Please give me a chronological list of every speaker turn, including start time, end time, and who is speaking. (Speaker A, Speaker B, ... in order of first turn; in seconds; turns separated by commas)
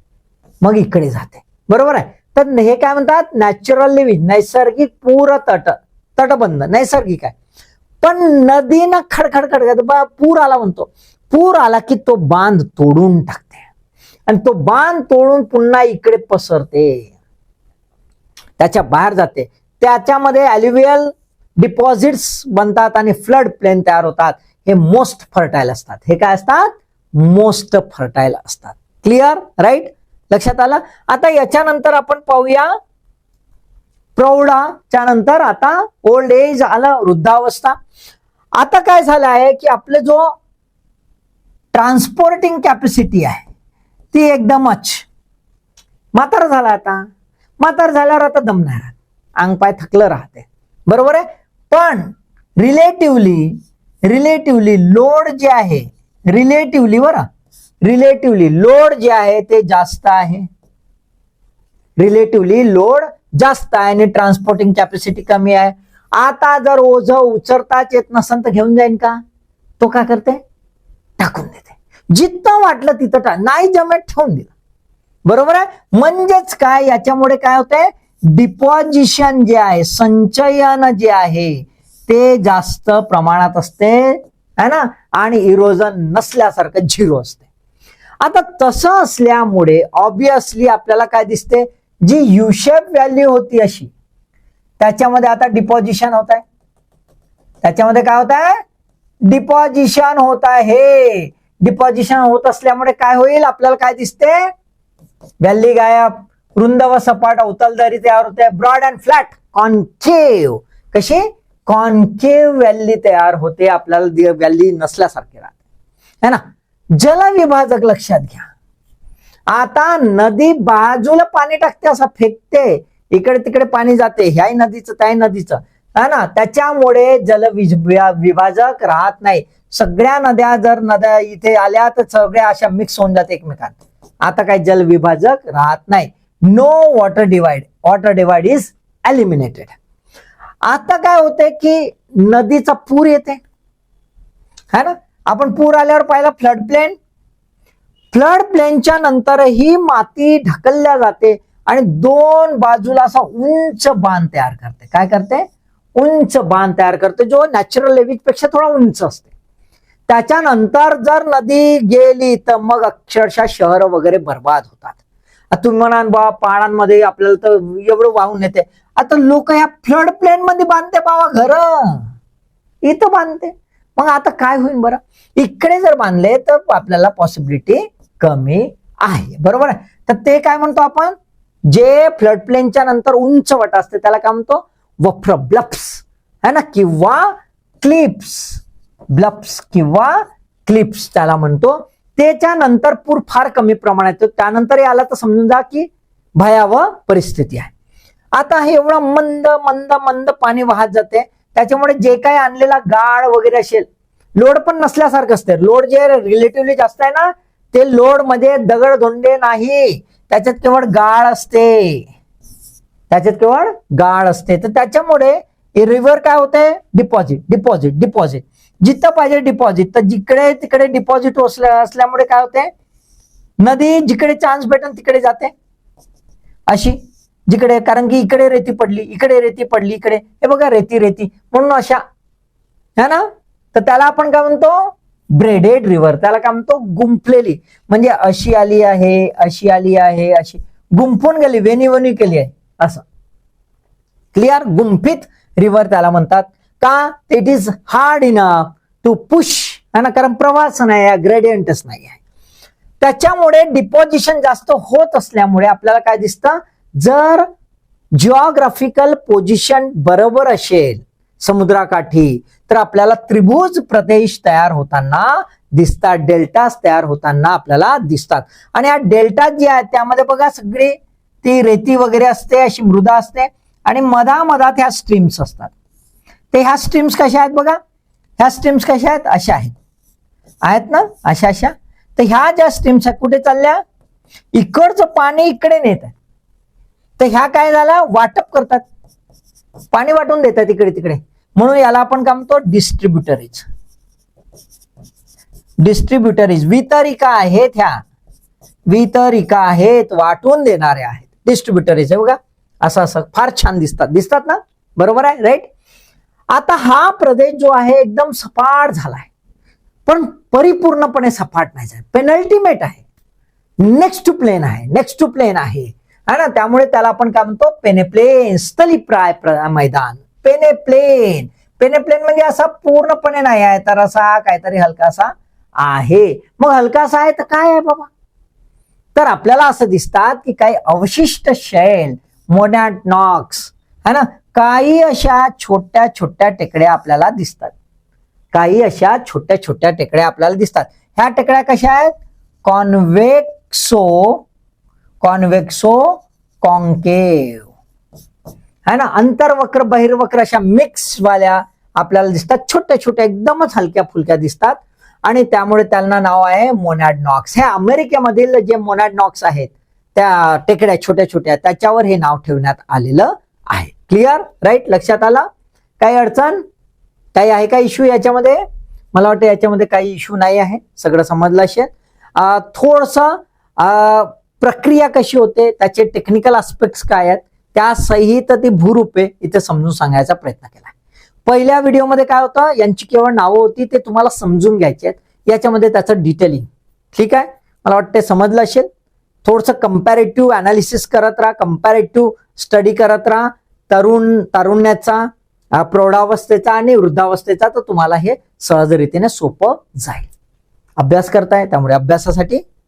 Speaker A: 0.6-7.3, Speaker A: 8.0-13.6, Speaker A: 14.3-17.1, Speaker A: 18.6-32.7, Speaker A: 34.1-37.7, Speaker A: 38.6-40.3, Speaker A: 41.7-43.5, Speaker A: 44.1-45.0, Speaker A: 46.1-47.0, Speaker A: 47.6-53.5, Speaker A: 54.0-57.2, Speaker A: 57.8-60.5, Speaker A: 62.0-69.2, Speaker A: 69.8-70.4, Speaker A: 71.2-74.5, Speaker A: 75.2-87.4, Speaker A: 88.2-93.9, Speaker A: 94.8-96.4, Speaker A: 97.6-98.6, Speaker A: 99.2-104.5, Speaker A: 105.4-115.5, Speaker A: 117.0-118.5, Speaker A: 119.5-139.7, Speaker A: 140.7-143.4, Speaker A: 144.7-146.9, Speaker A: 148.1-155.4, Speaker A: 156.0-159.3, Speaker A: 160.1-164.9, Speaker A: 165.5-172.1, Speaker A: 172.8-181.1, Speaker A: 181.7-188.6, Speaker A: 189.1-197.7, Speaker A: 198.3-212.1, Speaker A: 213.1-222.7, Speaker A: 223.6-225.5, Speaker A: 226.7-232.0, Speaker A: 233.0-243.0, Speaker A: 244.3-252.2, Speaker A: 253.0-257.5, Speaker A: 258.1-275.7, Speaker A: 276.5-277.8, Speaker A: 278.4-279.7, Speaker A: 280.6-283.8, Speaker A: 284.5-286.1, Speaker A: 287.2-288.8, Speaker A: 289.9-293.6, Speaker A: 295.8-298.0, Speaker A: 298.9-305.7, Speaker A: 306.5-309.3, Speaker A: 310.1-313.0, Speaker A: 313.8-328.1, Speaker A: 329.1-337.7, Speaker A: 338.5-342.1, Speaker A: 342.6-344.4, Speaker A: 345.2-347.6, Speaker A: 348.9-365.4, Speaker A: 366.0-366.6, Speaker A: 367.3-368.6, Speaker A: 369.1-380.9, Speaker A: 381.4-388.9, Speaker A: 389.4-400.3, Speaker A: 401.0-402.6